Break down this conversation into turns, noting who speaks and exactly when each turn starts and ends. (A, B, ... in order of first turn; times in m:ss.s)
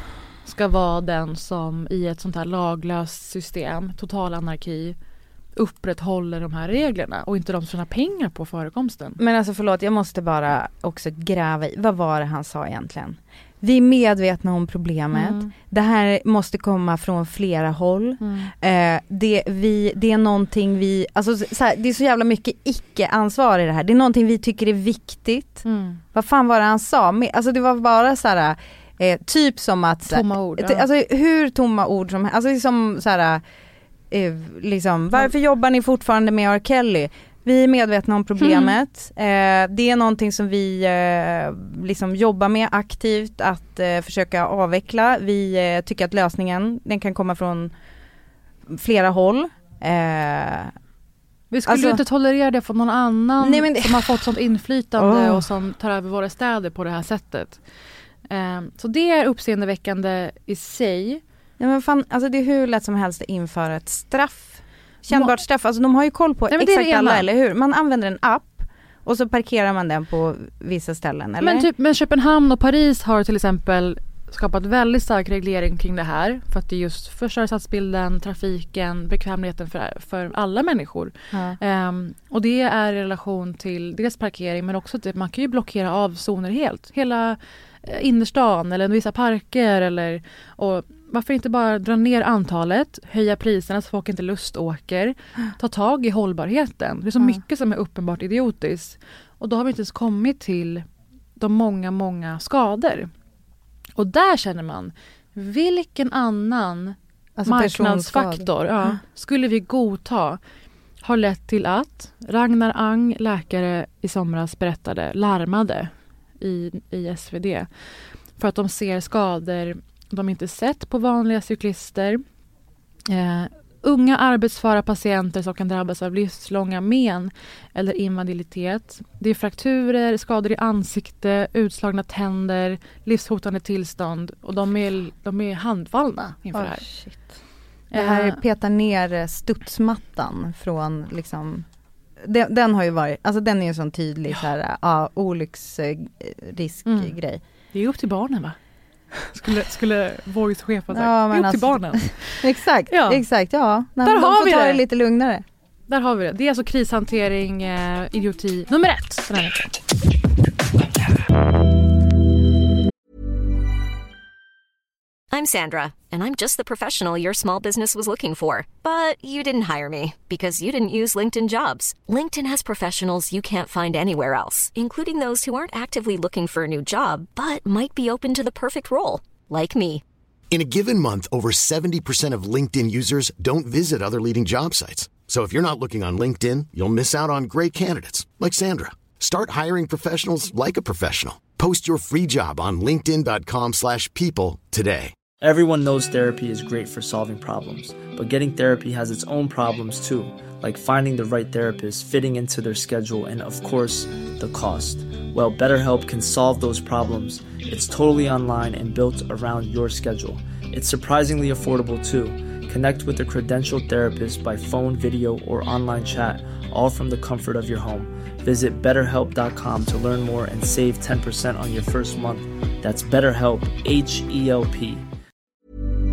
0:00.4-0:05.0 A
0:05.6-0:09.2 A
0:09.2-0:33.4 B
0:15.1-0:15.5 A
0:18.2-0:18.5 A
0:25.6-0:26.0 A
0:30.1-0:30.8 A
0:34.1-0:47.7 B
0:38.4-0:38.7 A
0:48.7-0:50.7 B
0:51.5-0:57.6 A
0:51.6-0:52.0 B
0:53.4-0:54.2 B
0:55.0-0:55.5 B
0:58.3-1:01.2 A
1:01.6-1:11.7 B
1:06.5-1:07.3 A
1:11.4-1:40.8 A
1:21.3-1:21.6 B
1:41.4-1:43.1 A
1:44.0-1:50.4 A
1:47.4-1:48.9 B
1:51.0-1:57.7 A
1:58.3-2:02.2 A
2:03.1-2:16.9 A
2:16.5-2:17.4 B
2:17.9-2:21.6 B
2:17.9-2:18.4 A
2:22.2-2:27.4 B
2:26.8-2:27.2 A
2:27.7-2:28.6 A
2:29.1-2:33.2 A
2:30.9-2:35.4 B
2:34.0-2:34.8 A
2:35.9-2:39.7 A
2:45.3-3:00.0 C
3:00.5-3:15.1 D
3:15.4-3:45.0 E